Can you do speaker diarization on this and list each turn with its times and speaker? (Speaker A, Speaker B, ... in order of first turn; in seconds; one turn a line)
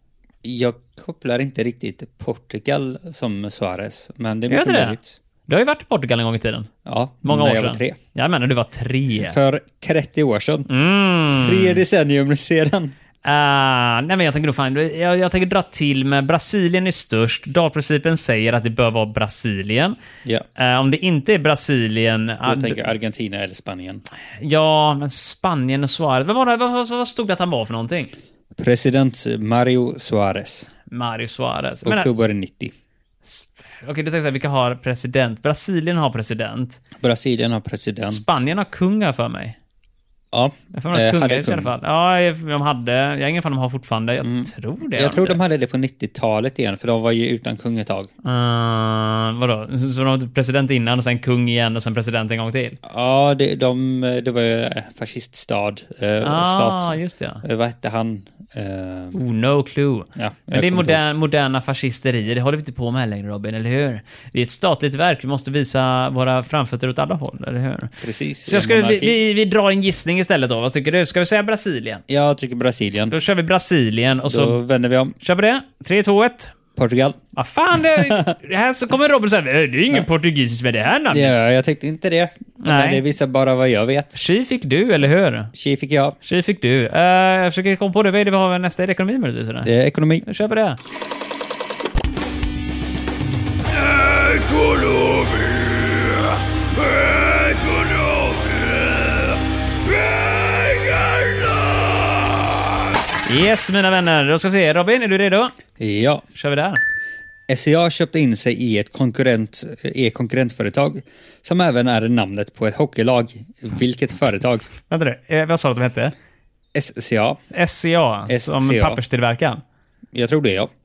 Speaker A: 0.4-5.2
Speaker B: 4.5-6.7
Speaker A: 6.8-8.0
Speaker B: 7.2-9.4
Speaker A: 9.2-10.7
Speaker B: 10.7-11.8
Speaker A: 11.3-12.9
Speaker B: 13.2-19.9
Speaker B: 20.6-22.8
Speaker A: 22.4-24.0
Speaker B: 24.4-28.1
Speaker A: 28.6-30.7
Speaker B: 30.9-32.1
Speaker A: 31.8-32.7
Speaker B: 33.2-36.8
Speaker A: 37.0-38.4
Speaker B: 38.1-39.5
Speaker A: 40.3-41.7
Speaker B: 40.7-45.4
Speaker A: 44.2-48.1
Speaker B: 48.2-52.8
Speaker A: 52.8-59.2
Speaker B: 56.2-57.4
Speaker B: 59.1-67.9
Speaker A: 60.1-61.0
Speaker A: 68.0-69.2
Speaker B: 68.5-72.0
Speaker A: 72.1-73.1
Speaker B: 73.1-74.6
Speaker A: 74.2-75.2
Speaker B: 75.2-76.5
Speaker A: 76.8-77.2
Speaker B: 77.3-81.3
Speaker A: 77.9-78.2
Speaker A: 81.1-84.2
Speaker B: 82.6-83.0
Speaker B: 84.1-85.5
Speaker A: 85.5-86.2
Speaker B: 86.2-89.7
Speaker A: 89.6-90.2
Speaker B: 90.2-90.8
Speaker A: 93.9-95.5
Speaker A: 96.9-98.9
Speaker A: 100.1-102.0
Speaker B: 103.2-105.6
Speaker A: 105.8-106.2
Speaker B: 106.3-106.8
Speaker A: 107.5-114.7
Speaker B: 114.9-116.1
Speaker A: 116.7-117.4
Speaker B: 117.5-119.6
Speaker A: 118.3-119.0
Speaker A: 120.1-120.7